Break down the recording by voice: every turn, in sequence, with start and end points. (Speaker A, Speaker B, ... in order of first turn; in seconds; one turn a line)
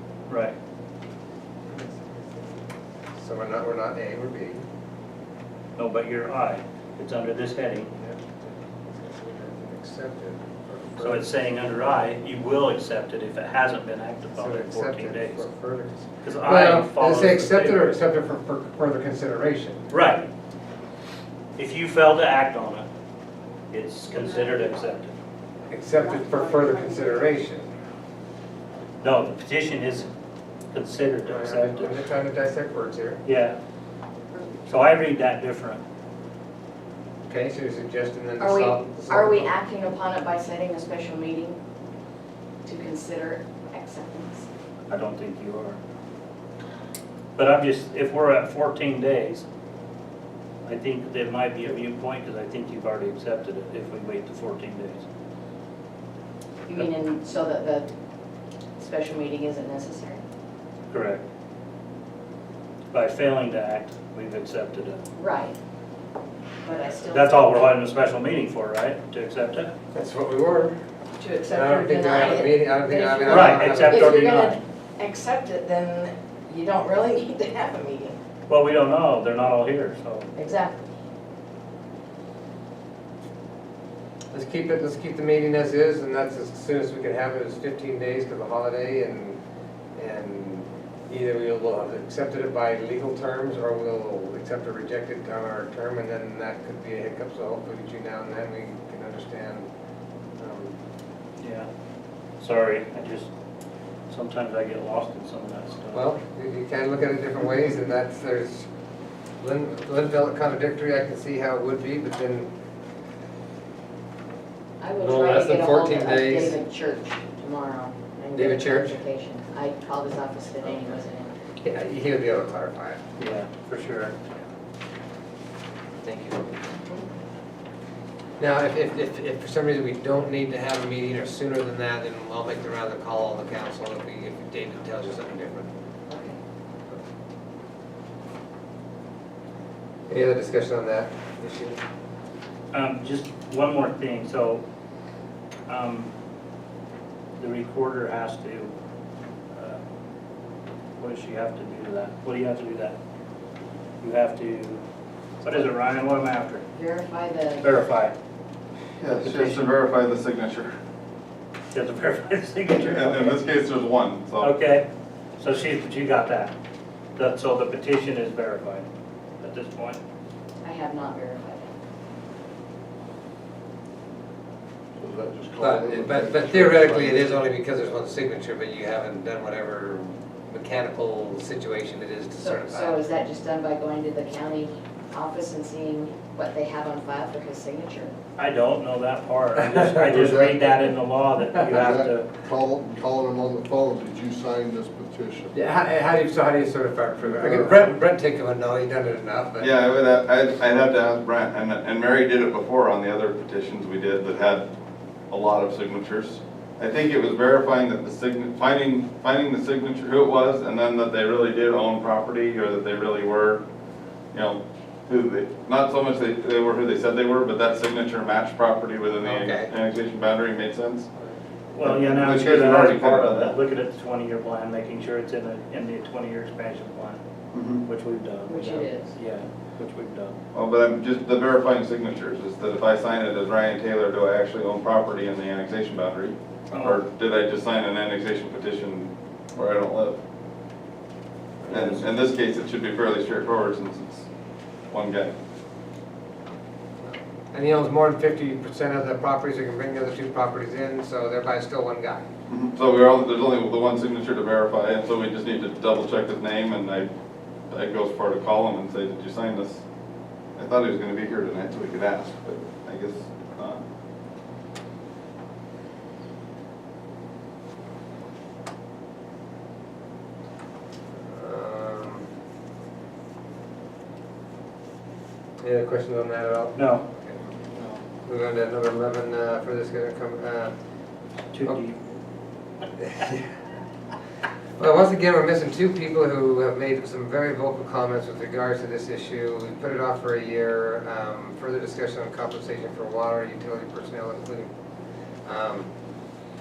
Speaker A: 0.3-0.5
Speaker B: 1.7-2.6
Speaker B: 3.1-4.6
Speaker A: 5.8-7.9
Speaker B: 8.0-11.3
Speaker A: 11.0-15.4
Speaker B: 14.4-19.9
Speaker A: 16.2-18.1
Speaker A: 19.9-20.3
Speaker A: 21.6-22.9
Speaker A: 23.7-25.1
Speaker B: 25.7-27.7
Speaker C: 26.1-27.1
Speaker A: 29.0-30.1
Speaker A: 30.7-32.0
Speaker B: 31.2-33.2
Speaker A: 33.2-33.6
Speaker A: 34.7-35.8
Speaker B: 37.3-39.5
Speaker C: 38.4-41.6
Speaker C: 42.6-44.5
Speaker A: 44.9-45.8
Speaker A: 47.4-49.5
Speaker A: 50.6-55.0
Speaker C: 56.7-57.9
Speaker C: 58.8-60.2
Speaker A: 60.9-61.2
Speaker A: 62.9-65.0
Speaker C: 65.2-65.6
Speaker C: 66.6-67.6
Speaker A: 67.0-69.7
Speaker B: 69.9-70.8
Speaker C: 71.2-78.2
Speaker B: 71.5-74.5
Speaker A: 73.3-74.6
Speaker A: 78.5-80.3
Speaker C: 80.4-80.9
Speaker B: 84.3-89.4
Speaker B: 90.0-99.7
Speaker B: 100.4-100.8
Speaker A: 101.4-101.7
Speaker A: 102.4-103.3
Speaker A: 104.1-106.0
Speaker B: 105.9-108.7
Speaker B: 109.4-112.5
Speaker C: 114.8-121.3
Speaker B: 115.0-116.6
Speaker B: 118.3-119.0
Speaker B: 121.6-123.0
Speaker A: 123.2-124.2
Speaker B: 126.0-126.5
Speaker B: 128.4-135.7
Speaker C: 136.1-136.4
Speaker B: 140.1-141.8
Speaker A: 142.7-144.6
Speaker A: 145.7-146.1
Speaker A: 147.4-148.7
Speaker A: 149.5-149.8
Speaker A: 151.0-152.9
Speaker A: 154.0-154.8
Speaker A: 155.4-156.6
Speaker C: 156.8-157.7
Speaker A: 157.6-158.1
Speaker D: 159.0-160.8
Speaker A: 159.2-159.7
Speaker A: 161.7-163.4
Speaker D: 162.8-164.5
Speaker A: 164.4-164.8
Speaker A: 165.4-166.5
Speaker A: 167.2-168.9
Speaker A: 169.4-170.0
Speaker C: 170.6-171.7
Speaker E: 175.0-177.4
Speaker B: 175.6-183.0
Speaker C: 182.4-188.1
Speaker A: 188.4-192.3
Speaker E: 189.9-190.9
Speaker E: 191.6-195.6
Speaker B: 195.5-199.7
Speaker E: 197.2-197.8
Speaker D: 199.6-204.7
Speaker D: 205.3-213.6
Speaker D: 214.3-221.1
Speaker B: 219.2-219.7
Speaker A: 221.7-227.2
Speaker D: 221.8-223.6
Speaker D: 227.5-227.8
Speaker A: 227.8-230.4
Speaker C: 228.4-229.1
Speaker D: 230.5-240.2
Speaker A: 236.7-237.0
Speaker B: 241.6-242.0
Speaker D: 241.7-244.3
Speaker D: 244.9-245.3
Speaker B: 247.0-252.2
Speaker D: 252.5-257.1
Speaker D: 257.7-259.8
Speaker D: 260.6-263.8
Speaker B: 271.2-272.2
Speaker B: 275.6-277.4
Speaker A: 276.8-277.0
Speaker A: 277.8-278.0
Speaker B: 278.2-280.7
Speaker A: 281.5-281.9
Speaker B: 283.0-283.5
Speaker B: 284.8-294.7
Speaker B: 295.4-295.9